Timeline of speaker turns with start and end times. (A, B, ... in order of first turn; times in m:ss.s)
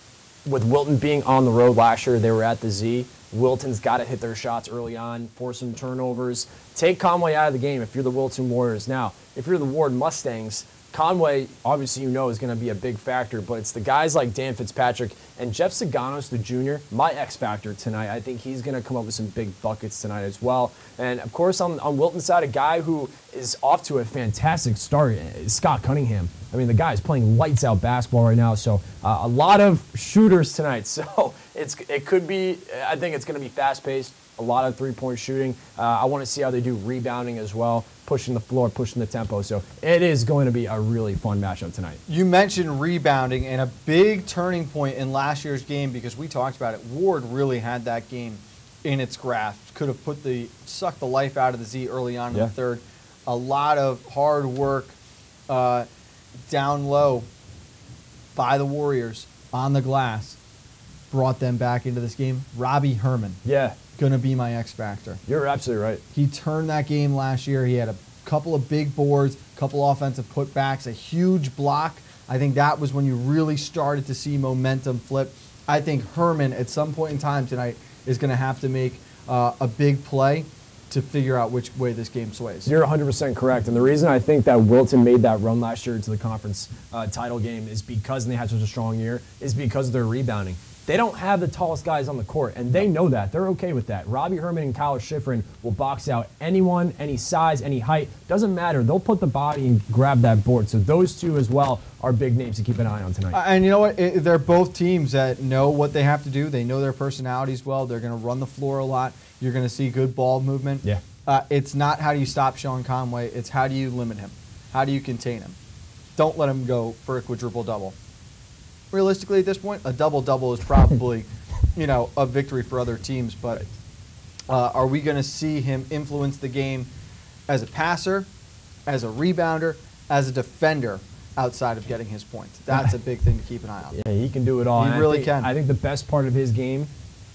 0:00.4-0:42.0 A
0:42.1-0:55.0 B
0:55.5-0:55.9 B
0:56.5-0:57.3 B
0:58.3-1:00.4 B
1:01.1-1:03.4 B
1:03.4-1:03.8 A
1:04.0-1:05.2 B
1:05.2-1:06.0 A
1:06.1-1:22.7 B
1:22.6-1:43.4 A
1:43.3-1:55.6 B
1:56.2-1:58.0 B
1:58.9-2:03.7 B
2:04.5-2:06.9 B
2:07.5-2:08.3 B
2:08.8-2:14.0 B
2:13.9-2:16.9 A
2:14.8-2:15.5 B